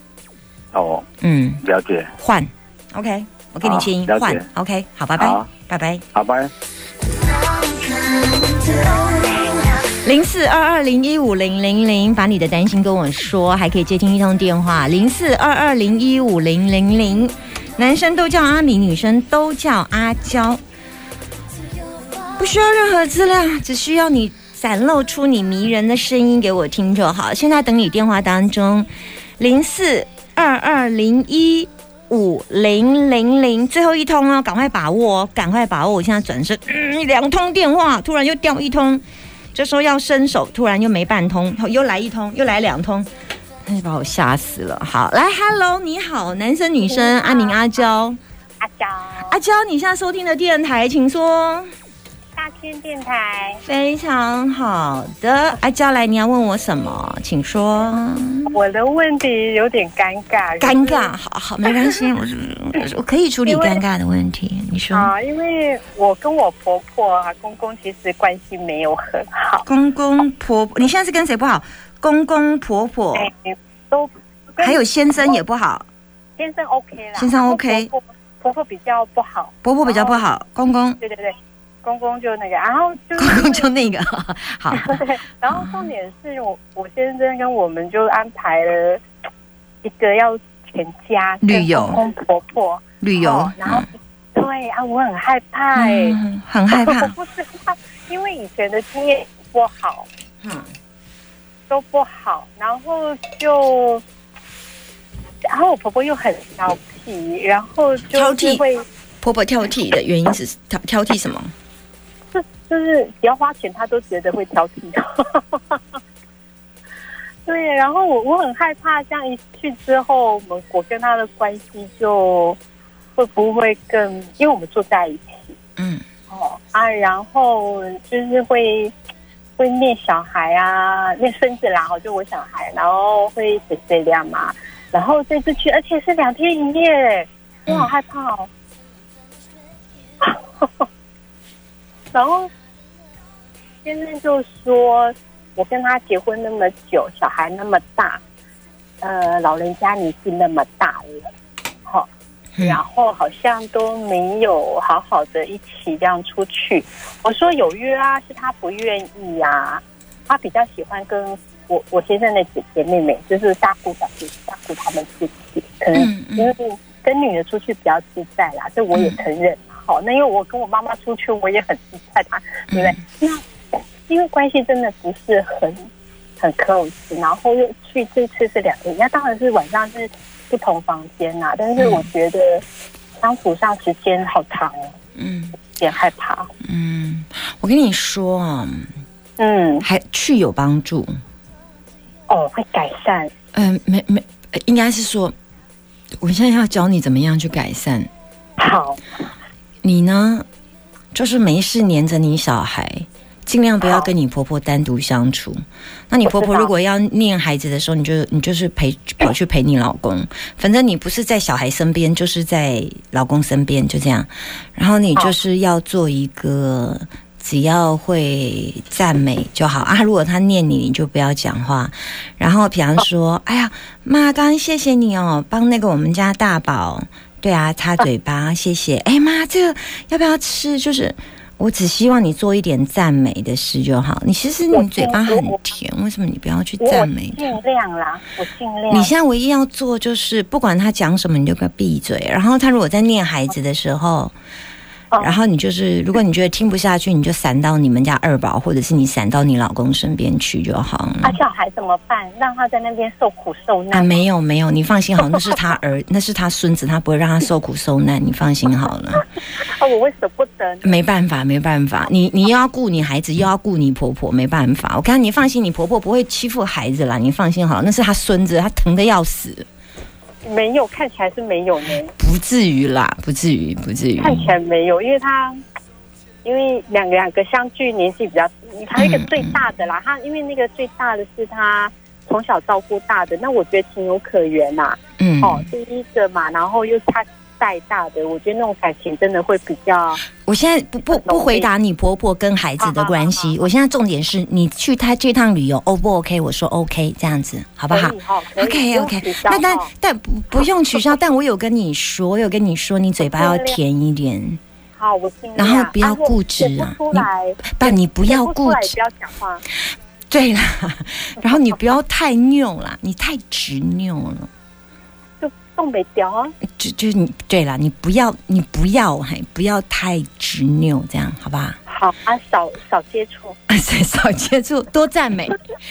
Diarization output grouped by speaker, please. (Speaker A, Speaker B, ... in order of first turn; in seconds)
Speaker A: 0.7-1.1, 1.6-2.1, 3.6-4.4, 5.2-5.5, 6.1-6.5
Speaker B: 1.2-1.6, 2.2-6.0, 10.0-20.6, 22.4-39.0, 39.5-43.1, 43.6-48.2, 49.2-51.7, 53.6-58.6, 60.6-65.1, 69.6-73.3, 74.6-75.9, 77.2-77.9, 79.6-81.0, 83.2-85.9, 91.4-92.0, 93.0-93.9, 95.8-97.1, 100.4-100.7, 108.1-108.6, 109.2-111.5, 125.8-126.0, 152.6-152.8, 165.9-166.5, 168.9-169.2, 172.7-173.0, 181.8-182.1, 185.2-185.6, 186.7-188.9, 189.8-191.1, 193.5-195.3, 196.2-198.1, 199.8-200.5, 201.2-237.6, 238.9-244.3, 245.2-251.4, 253.9-259.2, 260.8-269.7, 272.2-274.6, 278.9-279.7, 285.2-285.7, 290.4-304.6, 305.6-308.9, 310.3-314.5, 316.8-321.8, 323.7-325.6
Speaker C: 46.9-47.6, 48.6-49.4, 52.4-53.6, 58.5-61.1, 63.5-63.8, 64.9-69.7, 73.2-75.4, 76.4-80.2, 81.0-83.7, 84.7-89.0, 89.8-96.2, 96.8-100.1, 101.7-104.0, 105.5-108.8, 112.3-115.8, 117.5-122.6, 123.2-125.5, 126.3-128.9, 129.6-138.5, 140.2-140.8, 142.1-142.5, 143.8-148.2, 149.0-151.3, 152.6-173.4, 174.1-175.9, 176.4-182.6, 183.2-185.0, 185.8-186.5, 189.4-189.9, 192.3-193.3, 198.6-199.0, 206.3-206.7, 234.7-235.6, 236.8-239.1, 245.1-245.4, 251.2-254.2, 259.6-261.0, 270.4-272.1, 274.2-275.6, 276.4-290.2, 291.1-291.7, 292.8-293.5, 297.9-299.9, 303.2-303.8, 305.0-309.6, 315.4-316.6, 321.9-323.6